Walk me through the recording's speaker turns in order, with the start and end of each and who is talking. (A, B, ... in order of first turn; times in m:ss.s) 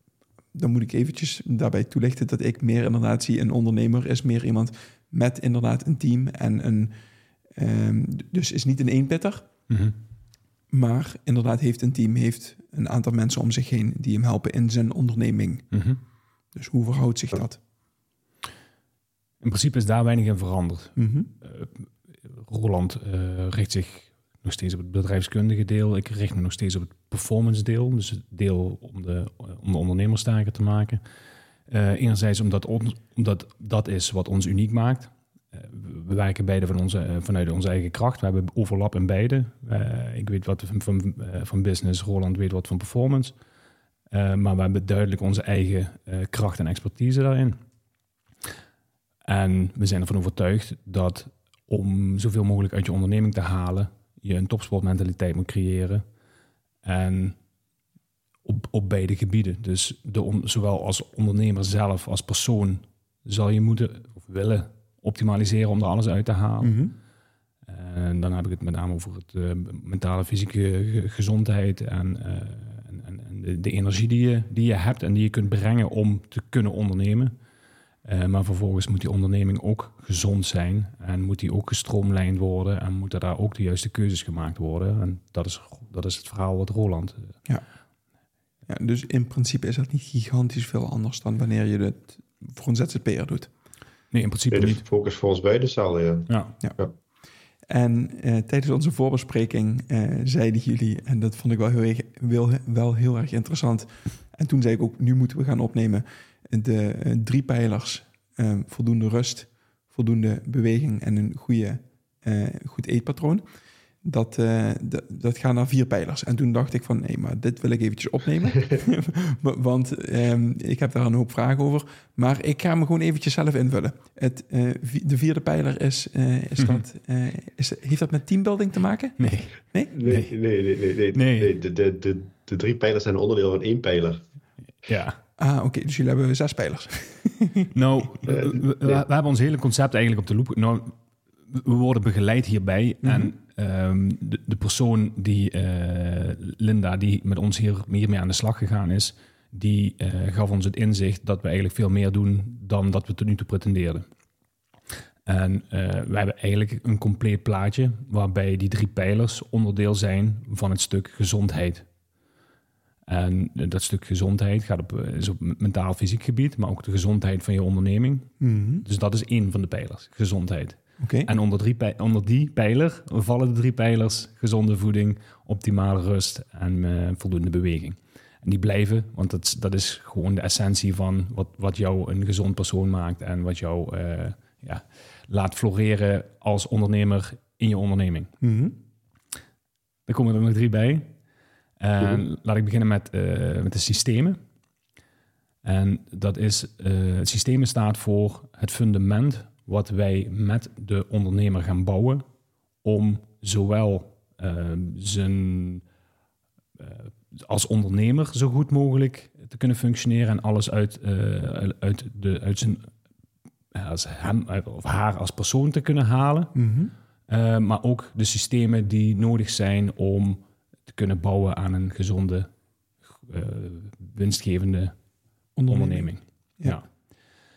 0:00.5-0:06.9 A
0:07.5-0:09.5 A
0:09.7-0:10.0 B
0:10.7-0:15.7 A
0:15.7-0:16.0 B
0:16.5-0:17.6 A
0:19.4-0:31.0 B
0:21.0-0:21.3 A
0:31.7-0:43.3 B
0:44.1-0:47.6 B
0:49.2-0:56.0 B
0:56.8-0:57.4 B
0:58.4-1:06.8 B
1:06.6-1:06.9 A
1:07.6-1:17.3 B
1:18.0-1:27.4 B
1:28.7-1:33.5 A
1:34.1-1:34.8 B
1:34.5-1:36.9 C
1:36.3-1:36.6 B
1:37.7-1:53.4 A
1:54.0-2:09.9 A
2:09.2-2:10.3 B
2:09.9-2:14.2 C
2:11.1-2:11.5 B
2:14.8-2:15.2 B
2:15.4-2:17.7 A
2:17.7-2:34.0 B
2:18.2-2:19.0 C
2:23.0-2:23.3 A
2:35.2-2:41.9 B
2:43.1-3:08.3 B
2:48.4-2:48.8 A
2:51.0-2:51.3 A
3:08.4-3:08.7 A
3:10.1-3:11.1 B
3:11.8-3:14.4 B
3:15.6-3:22.2 B
3:22.8-3:25.8 B
3:26.8-3:32.8 B
3:33.7-3:36.6 B
3:36.5-3:36.9 A
3:37.3-3:42.5 B
3:43.2-3:44.9 B
3:45.6-3:46.8 A
3:45.7-3:46.9 B